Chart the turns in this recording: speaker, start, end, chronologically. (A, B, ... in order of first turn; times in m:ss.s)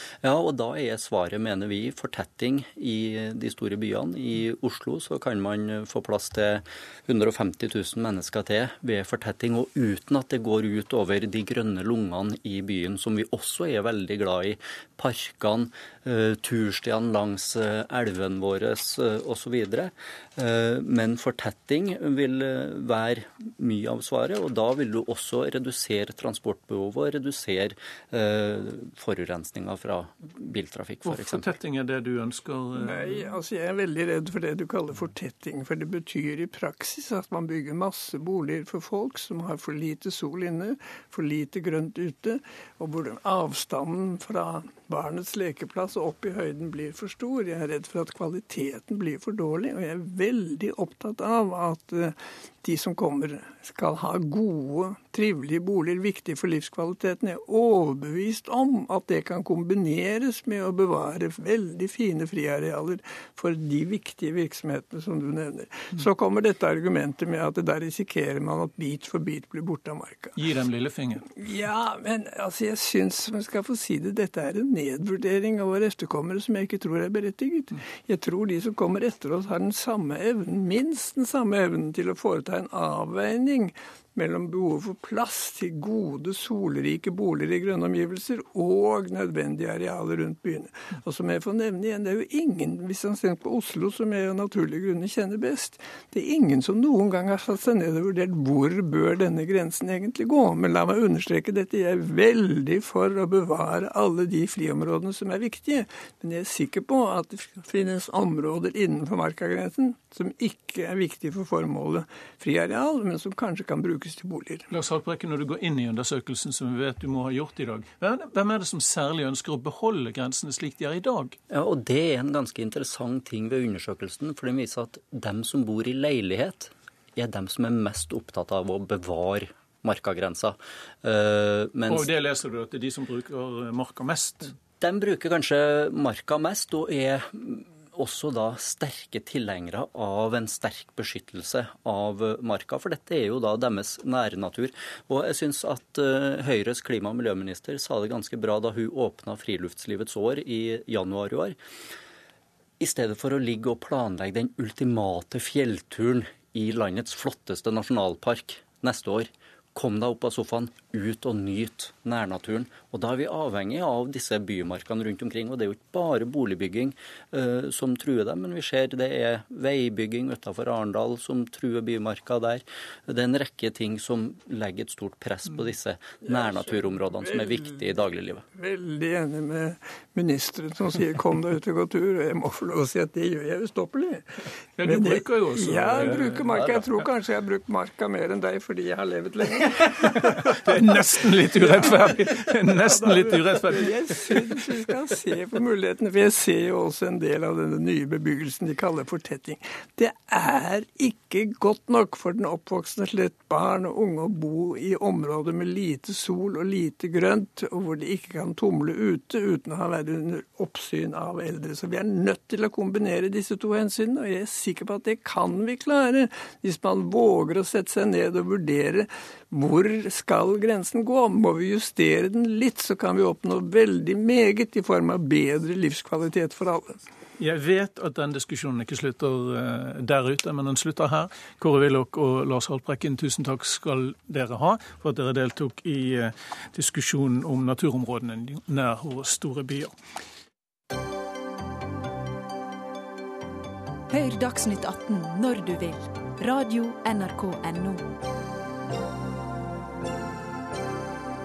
0:00.2-0:31.5 A
0:31.0-0:33.3 B
0:32.7-1:10.4 C
1:10.4-1:11.3 B
1:11.4-1:54.7 C
1:54.7-2:01.4 B
2:01.5-2:12.1 A
2:11.9-2:14.5 B
2:14.8-2:31.6 A
2:32.8-2:58.4 A
2:56.2-2:58.0 C
2:58.5-3:04.3 C
3:04.8-3:06.9 B
3:04.8-3:47.0 C
3:09.8-3:14.4 B
3:47.4-3:59.9 B
4:04.1-4:08.1 D